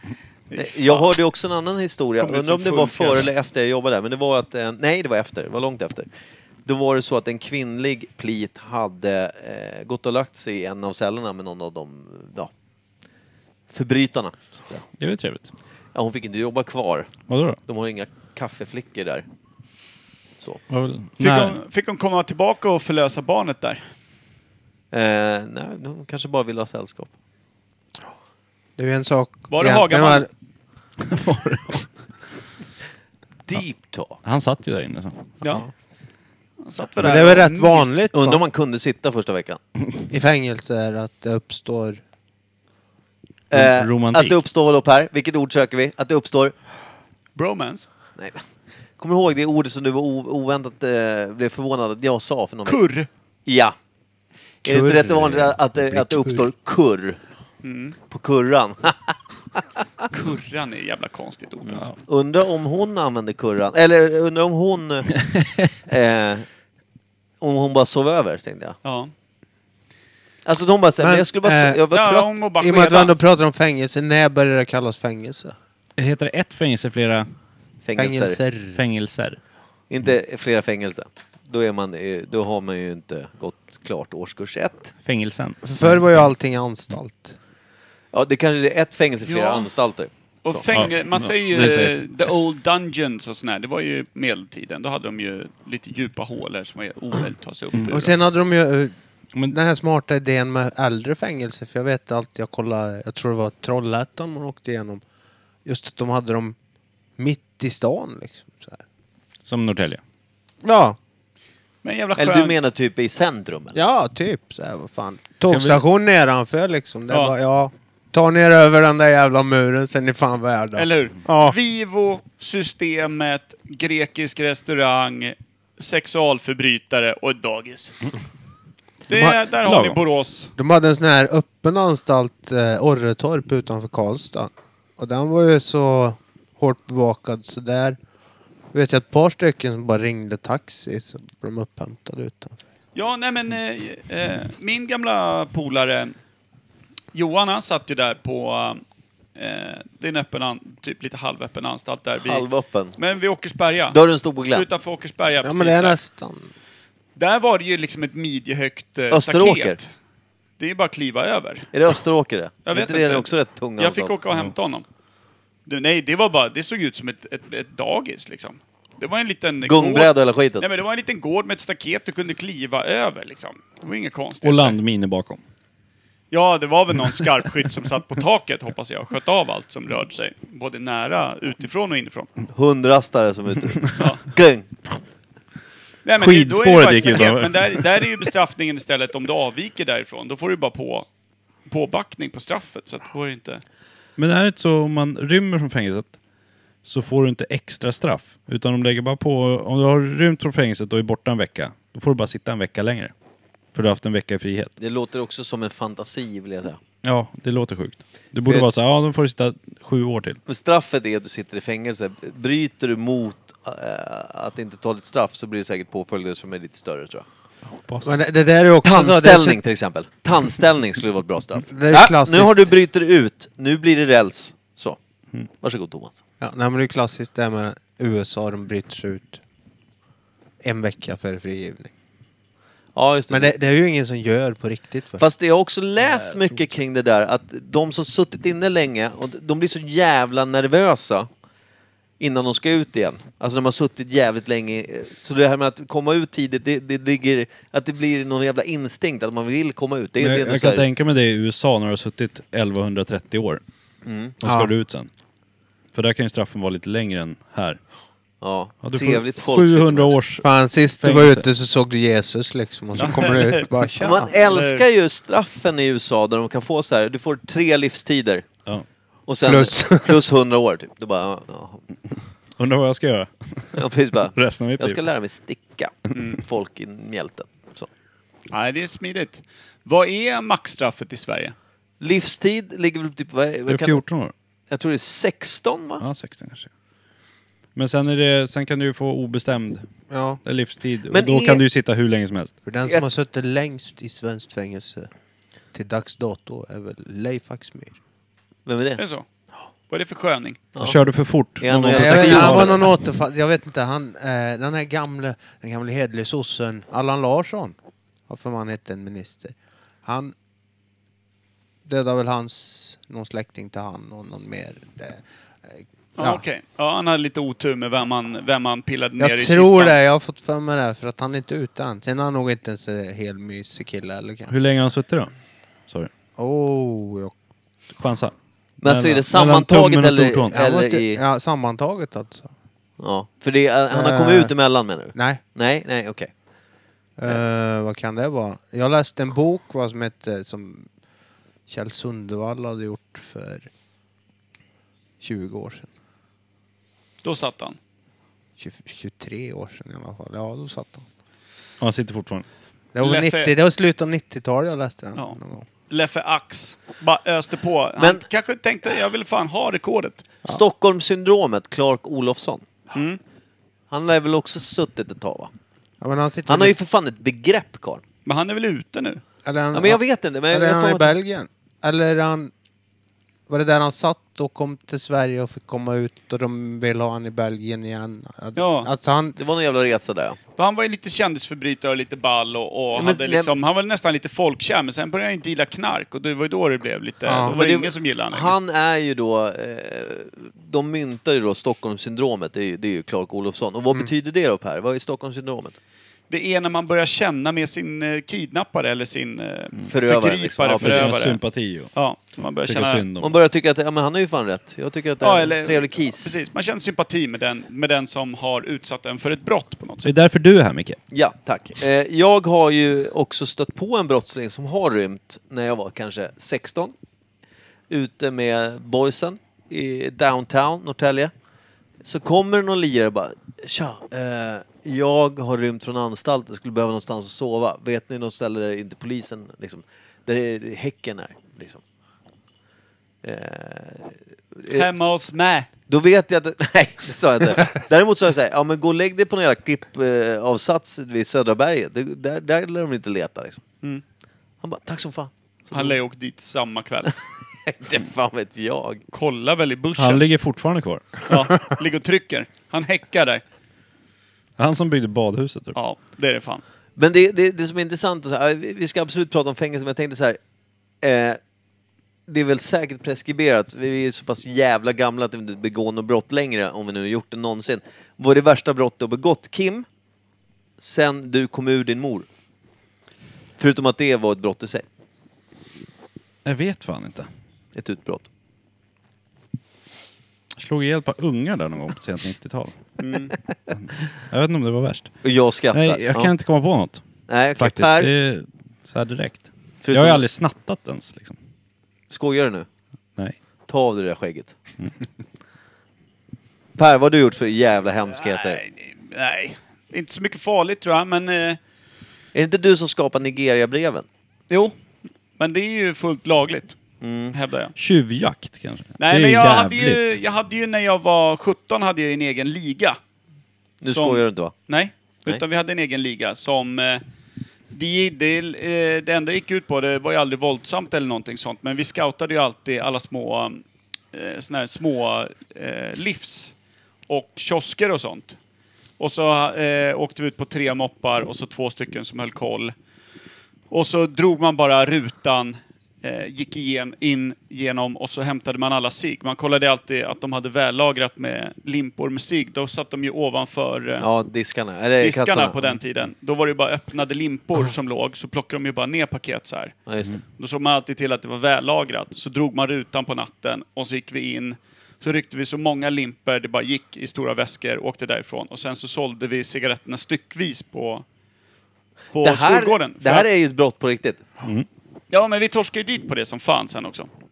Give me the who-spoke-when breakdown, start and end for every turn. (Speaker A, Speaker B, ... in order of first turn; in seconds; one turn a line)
Speaker A: 0.5-1.1
Speaker B: 0.5-6.1
Speaker A: 2.2-3.3
Speaker B: 6.7-12.5
Speaker B: 13.7-14.8
Speaker C: 15.0-15.5
Speaker B: 15.9-17.1
Speaker C: 17.3-17.6
Speaker B: 17.6-19.2
Speaker C: 20.7-21.6
Speaker A: 21.2-23.8
Speaker B: 24.9-27.1
Speaker D: 28.8-30.3
Speaker A: 29.5-30.3
Speaker C: 31.0-31.9
Speaker B: 33.5-34.2
Speaker C: 34.2-35.3
Speaker A: 36.6-37.9
Speaker D: 37.0-38.4
Speaker B: 38.1-39.6
Speaker D: 40.1-42.0
Speaker B: 43.5-46.5
Speaker C: 43.5-44.4
Speaker A: 47.4-47.9
Speaker B: 48.2-48.4
Speaker B: 49.0-52.8
Speaker A: 52.6-53.1
Speaker B: 53.5-53.8
Speaker D: 54.6-56.5
Speaker B: 54.6-57.2
Speaker A: 57.6-58.0
Speaker B: 58.1-59.6
Speaker A: 60.1-61.9
Speaker B: 61.6-65.2
Speaker B: 65.8-66.5
Speaker B: 67.4-68.8
Speaker A: 68.8-69.1
Speaker B: 70.5-72.3
Speaker D: 71.0-71.8
Speaker A: 71.9-73.1
Speaker D: 72.6-75.5
Speaker C: 76.0-77.3
Speaker B: 77.8-78.4
Speaker D: 78.0-78.8
Speaker C: 78.7-79.4
Speaker B: 79.9-84.9
Speaker C: 85.0-86.2
Speaker D: 85.6-87.3
Speaker B: 88.1-90.6
Speaker A: 89.3-89.7
Speaker A: 90.4-98.2
Speaker C: 90.7-92.0
Speaker D: 97.9-98.9
Speaker D: 99.5-105.0
Speaker D: 105.6-106.5
Speaker D: 107.2-108.8
Speaker C: 109.4-110.0
Speaker D: 110.6-111.0
Speaker A: 111.8-112.5
Speaker B: 112.2-113.8
Speaker D: 113.7-121.5
Speaker C: 115.5-115.8
Speaker A: 117.1-117.3
Speaker A: 120.8-128.0
Speaker A: 129.1-130.5
Speaker D: 129.1-129.4
Speaker C: 129.6-130.0
Speaker D: 130.6-138.0
Speaker D: 138.7-142.6
Speaker A: 142.9-146.1
Speaker A: 147.1-148.8
Speaker A: 149.4-152.4
Speaker B: 152.2-153.0
Speaker A: 153.0-154.0
Speaker B: 153.9-154.7
Speaker A: 154.5-156.0
Speaker D: 155.4-156.5
Speaker A: 157.2-159.9
Speaker B: 159.1-159.8
Speaker A: 160.6-161.7
Speaker B: 161.7-164.1
Speaker A: 162.7-164.8
Speaker A: 165.7-174.8
Speaker B: 169.6-170.7
Speaker C: 174.4-175.4
Speaker A: 176.3-182.3
Speaker B: 182.5-184.7
Speaker A: 184.0-184.2
Speaker A: 186.0-191.1
Speaker C: 186.2-187.8
Speaker A: 191.7-193.6
Speaker C: 194.2-196.1
Speaker C: 196.8-203.1
Speaker C: 203.7-204.7
Speaker B: 204.8-206.8
Speaker C: 207.0-210.4
Speaker B: 210.4-217.2
Speaker C: 217.7-218.2
Speaker D: 218.0-219.6
Speaker B: 218.8-225.0
Speaker D: 221.7-222.7
Speaker B: 225.6-226.2
Speaker D: 226.4-229.4
Speaker D: 230.6-231.9
Speaker B: 232.9-233.5
Speaker D: 233.3-235.2
Speaker B: 235.2-241.3
Speaker C: 236.1-236.5
Speaker B: 242.2-250.8
Speaker C: 250.2-253.6
Speaker B: 254.0-254.4
Speaker C: 254.4-255.1
Speaker D: 254.4-254.7
Speaker C: 255.9-257.8
Speaker B: 258.4-260.2
Speaker C: 258.8-260.5
Speaker D: 260.4-264.3
Speaker C: 261.0-261.5
Speaker A: 262.9-263.7
Speaker B: 264.0-268.4
Speaker A: 264.4-264.8
Speaker B: 269.3-271.8
Speaker D: 269.4-270.2
Speaker C: 272.6-275.0
Speaker B: 273.7-277.9
Speaker A: 276.1-276.4
Speaker A: 278.5-281.5
Speaker B: 282.0-284.0
Speaker C: 283.7-284.3
Speaker B: 284.7-286.0
Speaker C: 286.0-286.7
Speaker C: 287.7-289.9
Speaker D: 290.1-290.4
Speaker C: 290.4-292.5
Speaker B: 291.1-291.6
Speaker D: 292.6-295.1
Speaker D: 295.7-297.9
Speaker B: 298.6-299.0
Speaker A: 299.0-299.2
Speaker A: 299.9-300.6
Speaker B: 300.7-302.8
Speaker C: 300.8-302.9
Speaker D: 301.9-307.7
Speaker D: 308.3-309.5
Speaker D: 310.1-310.3
Speaker D: 311.9-316.4
Speaker A: 316.2-319.9
Speaker D: 319.2-324.5
Speaker C: 324.5-325.3
Speaker D: 326.4-327.3
Speaker C: 328.0-330.5
Speaker B: 328.8-331.2
Speaker D: 330.5-332.5
Speaker B: 333.0-336.3
Speaker D: 333.9-334.5
Speaker D: 335.1-335.4
Speaker D: 337.2-340.9
Speaker D: 341.7-343.7
Speaker D: 345.2-345.9
Speaker A: 347.2-347.8
Speaker D: 348.6-351.0
Speaker C: 351.8-352.4
Speaker D: 352.9-355.6
Speaker A: 353.0-353.5
Speaker A: 355.9-360.2
Speaker B: 358.0-358.2
Speaker B: 360.4-362.6
Speaker A: 362.9-363.2
Speaker B: 363.9-365.5
Speaker D: 366.0-366.7
Speaker B: 366.5-368.0
Speaker A: 368.2-369.2
Speaker D: 369.4-372.5
Speaker B: 369.7-371.1
Speaker D: 373.5-379.4
Speaker A: 378.5-378.9
Speaker B: 379.4-380.4
Speaker A: 380.6-388.5
Speaker B: 382.9-383.5
Speaker D: 387.2-387.5
Speaker B: 387.4-395.8
Speaker A: 396.3-401.4
Speaker B: 399.9-401.1
Speaker C: 400.8-401.9
Speaker A: 401.9-403.0
Speaker C: 402.6-403.4
Speaker B: 403.2-406.3
Speaker A: 405.2-410.1
Speaker C: 410.0-411.0
Speaker B: 411.1-416.9
Speaker B: 417.9-421.3
Speaker B: 422.0-431.8
Speaker B: 433.2-434.9
Speaker A: 434.7-435.7
Speaker B: 435.9-443.6
Speaker B: 444.6-445.9
Speaker A: 445.7-447.1
Speaker B: 447.6-449.0
Speaker A: 449.1-450.2
Speaker C: 449.9-451.1
Speaker A: 451.2-453.4
Speaker C: 454.6-455.8
Speaker A: 455.7-456.6
Speaker B: 457.0-460.4
Speaker B: 461.0-461.4
Speaker B: 462.3-469.9
Speaker B: 470.8-472.3
Speaker B: 473.6-474.8
Speaker C: 476.4-477.3
Speaker B: 477.7-478.3
Speaker C: 480.6-482.8
Speaker A: 483.0-483.3
Speaker C: 483.7-487.0
Speaker B: 485.2-486.3
Speaker B: 487.3-488.1
Speaker C: 487.6-491.4
Speaker B: 489.8-490.2
Speaker B: 492.1-492.7
Speaker B: 493.7-494.6
Speaker B: 496.8-498.6
Speaker A: 498.2-501.6
Speaker B: 502.3-504.1
Speaker A: 504.5-504.8
Speaker A: 505.4-506.8
Speaker B: 507.0-507.3
Speaker A: 507.3-507.7
Speaker C: 507.8-510.1
Speaker A: 509.0-513.0
Speaker B: 513.8-514.5
Speaker A: 513.9-517.0
Speaker A: 517.7-523.6
Speaker A: 524.1-526.5
Speaker A: 527.1-528.4
Speaker A: 529.0-532.7
Speaker A: 533.7-544.0
Speaker B: 544.0-545.8
Speaker A: 545.0-549.8
Speaker B: 549.9-550.2
Speaker A: 550.4-561.0
Speaker A: 562.1-563.3
Speaker B: 562.2-564.2
Speaker A: 565.1-567.1